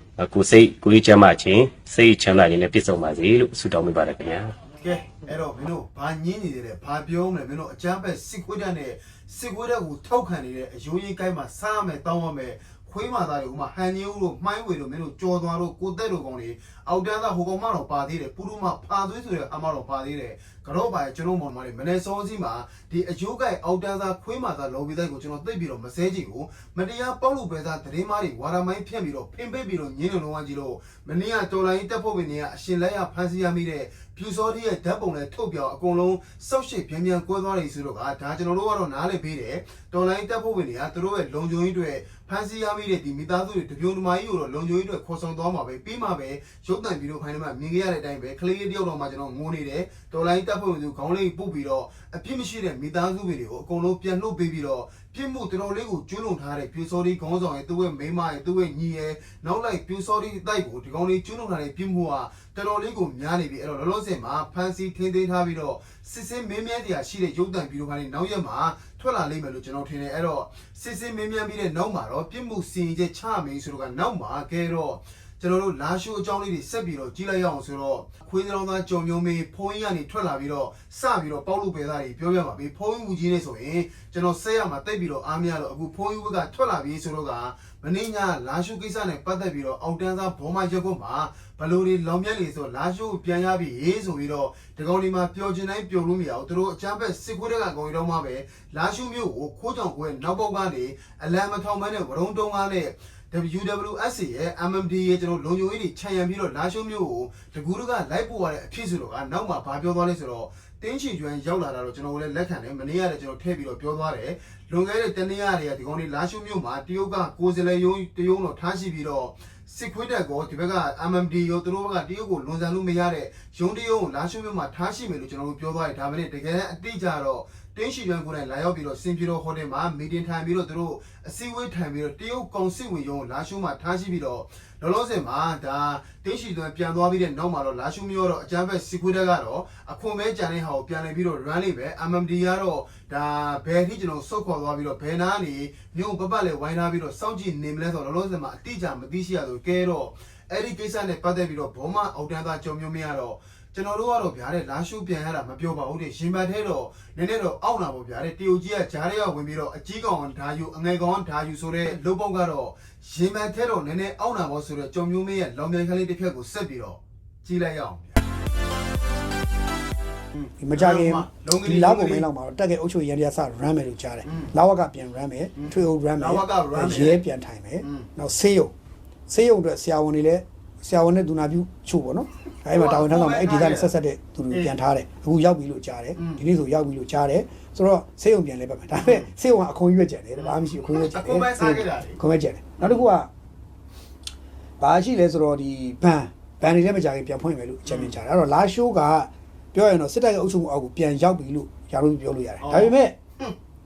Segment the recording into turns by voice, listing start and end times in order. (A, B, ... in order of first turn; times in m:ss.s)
0:00.2-0:04.5 A
0:04.8-2:48.2 B
2:50.3-2:52.3 B
2:50.6-2:58.7 C
2:54.2-2:54.5 B
2:55.6-2:57.2 B
2:57.8-2:58.1 B
2:59.3-3:13.3 C
3:02.7-3:03.9 B
3:04.5-3:04.8 B
3:06.2-3:06.4 B
3:09.0-3:09.3 B
3:10.4-3:12.2 B
3:12.8-3:13.1 B
3:14.8-3:23.2 C
3:17.8-3:18.2 B
3:22.6-3:23.5 B